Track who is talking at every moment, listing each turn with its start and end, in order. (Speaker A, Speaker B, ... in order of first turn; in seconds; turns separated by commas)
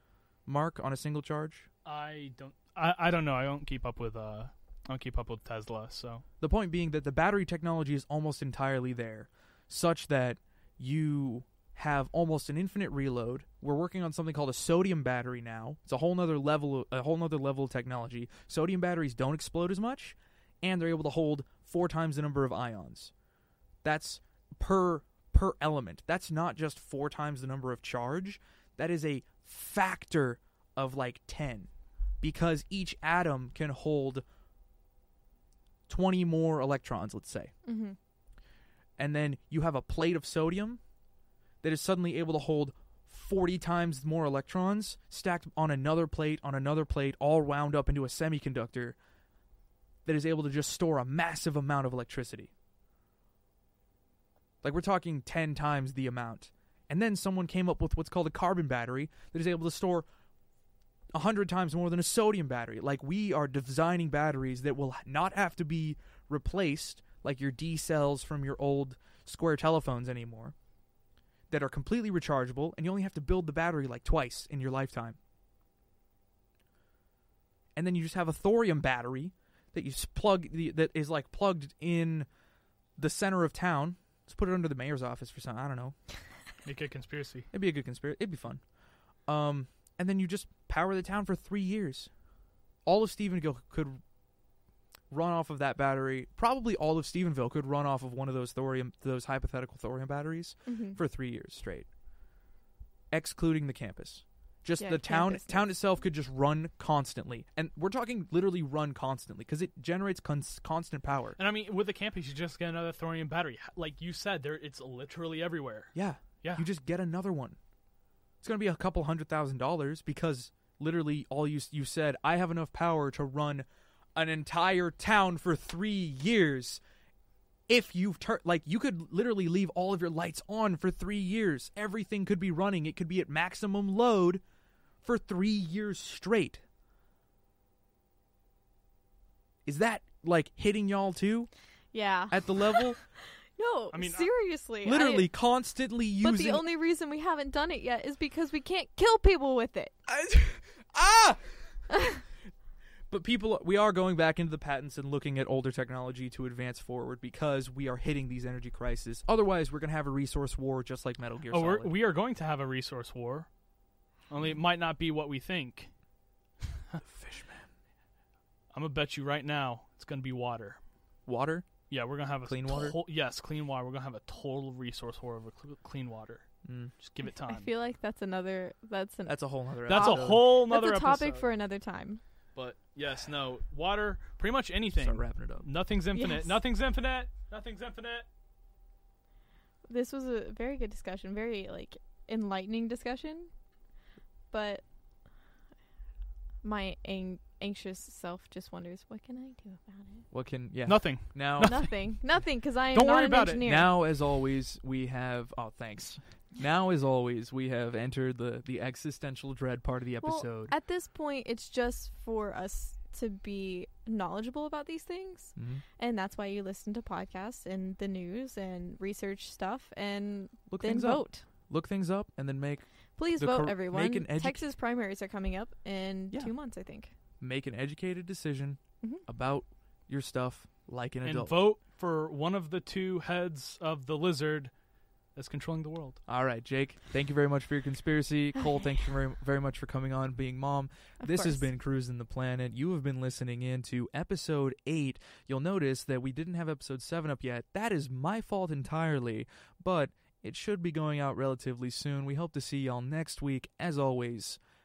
Speaker A: 0.5-1.7, Speaker B: 1.9-6.2, Speaker A: 6.4-23.1, Speaker A: 23.8-31.7, Speaker A: 32.2-34.2, Speaker A: 35.9-37.5, Speaker C: 37.6-38.0, Speaker A: 39.0-40.8, Speaker A: 41.6-49.0, Speaker A: 50.1-52.5, Speaker A: 54.6-60.1, Speaker A: 61.1-70.5, Speaker A: 71.5-75.2, Speaker A: 77.8-82.3, Speaker A: 83.0-86.0, Speaker B: 86.7-87.5, Speaker A: 87.5-88.6, Speaker A: 89.3-92.1, Speaker A: 92.9-94.0, Speaker A: 95.1-101.9, Speaker C: 100.7-101.0, Speaker A: 103.1-111.4, Speaker C: 104.8-105.7, Speaker B: 111.4-116.7, Speaker A: 116.0-117.6, Speaker A: 118.4-126.8, Speaker A: 127.7-134.4, Speaker A: 135.0-136.6, Speaker A: 139.7-141.5, Speaker C: 141.9-145.3, Speaker A: 142.3-143.0, Speaker B: 143.9-144.3, Speaker A: 144.8-146.6, Speaker C: 146.2-149.9, Speaker A: 150.1-151.4, Speaker C: 151.9-152.2, Speaker A: 153.1-161.9, Speaker B: 161.5-163.5, Speaker B: 164.3-165.9, Speaker A: 167.0-167.7, Speaker B: 168.7-170.8, Speaker A: 171.3-171.7, Speaker B: 171.9-176.5, Speaker A: 172.4-173.0, Speaker A: 176.7-176.9, Speaker B: 177.0-177.7, Speaker C: 177.3-182.2, Speaker A: 179.3-180.4, Speaker B: 179.9-181.5, Speaker B: 182.6-188.3, Speaker A: 184.9-185.7, Speaker C: 186.1-186.6, Speaker C: 189.9-193.5, Speaker C: 194.5-194.8, Speaker C: 196.6-200.3, Speaker A: 200.3-201.8, Speaker B: 200.9-201.9, Speaker C: 201.6-204.0, Speaker A: 202.9-210.7, Speaker C: 210.2-221.4, Speaker A: 215.6-215.8, Speaker A: 220.7-224.6, Speaker C: 223.2-227.1, Speaker A: 227.4-231.6, Speaker B: 231.2-234.7, Speaker B: 235.4-236.2, Speaker A: 236.3-254.6, Speaker C: 241.2-241.7